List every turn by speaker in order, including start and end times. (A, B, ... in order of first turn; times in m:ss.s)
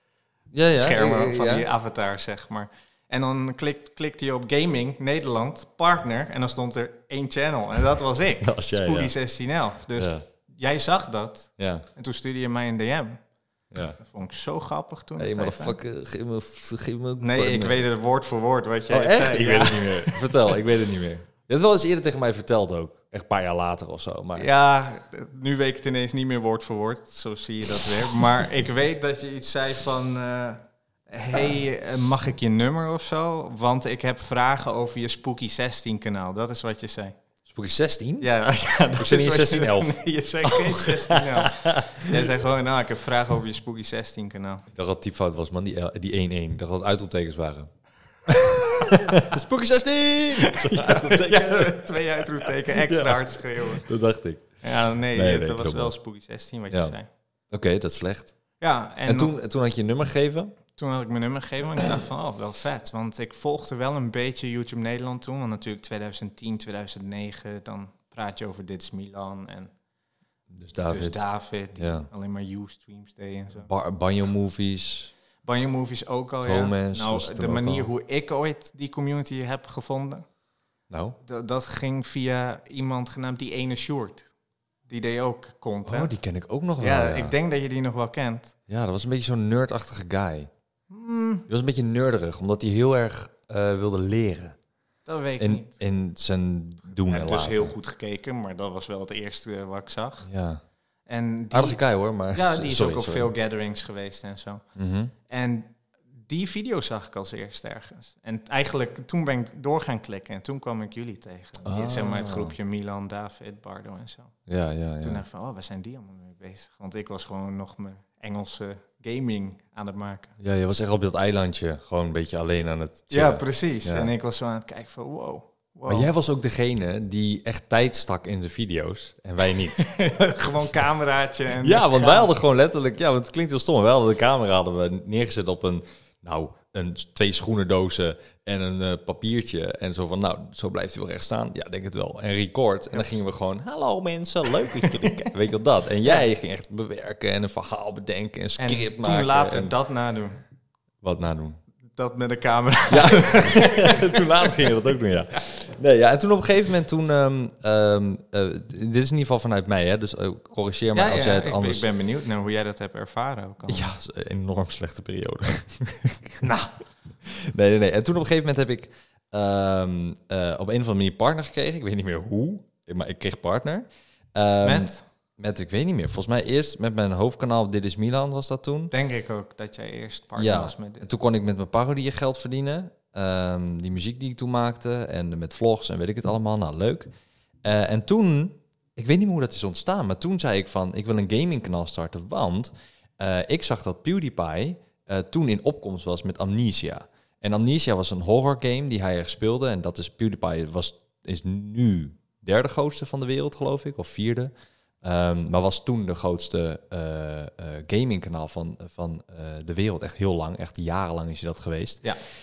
0:00.5-0:01.7 A
0:00.7-0:13.2 B
0:08.4-0:09.1 A
0:10.0-0:10.2 A
0:11.6-0:11.8 A
0:13.7-0:14.0 A
0:14.0-0:15.8 B
0:15.2-0:17.8 A
0:17.2-0:20.5 B
0:18.9-0:24.5 A
0:24.3-0:37.2 B
0:37.4-0:38.3 A
0:38.2-0:44.6 B
0:39.0-0:42.3 A
0:44.7-0:47.7 A
0:48.3-0:55.9 A
0:48.6-0:49.3 B
0:50.4-0:53.8 B
0:54.6-0:57.1 B
0:56.7-0:56.9 A
0:57.5-0:58.3 A
0:58.6-0:59.3 B
0:59.0-1:00.5 A
1:00.8-1:09.7 B
1:10.5-1:12.1 A
1:10.9-1:13.7 B
1:13.6-1:15.1 A
1:15.4-1:20.2 B
1:16.4-1:17.9 A
1:20.9-1:21.2 A
1:21.2-1:24.3 B
1:24.9-1:26.1 B
1:25.8-1:27.3 A
1:26.8-1:28.5 B
1:28.7-1:30.5 A
1:30.9-1:31.5 B
1:31.5-1:34.6 A
1:35.0-1:35.7 B
1:35.4-1:37.7 A
1:37.0-1:40.3 B
1:40.2-1:40.6 A
1:41.1-1:44.6 B
1:41.5-1:43.3 A
1:44.8-1:45.1 A
1:45.3-1:54.4 B
1:51.6-1:52.5 A
1:54.5-1:55.2 A
1:55.0-2:00.3 B
2:00.4-2:04.1 A
2:03.1-2:06.1 B
2:05.9-2:09.8 A
2:09.7-2:12.3 B
2:11.6-2:29.7 A
2:22.9-2:23.2 B
2:24.8-2:25.3 B
2:28.6-2:30.4 B
2:31.0-2:31.6 A
2:32.0-2:34.7 B
2:32.9-2:41.8 A
2:40.9-2:43.9 B
2:43.7-2:46.7 A
2:47.2-2:58.9 A
2:54.6-2:55.0 B
2:58.9-3:01.1 B
3:00.4-3:07.1 A
3:07.6-3:32.0 A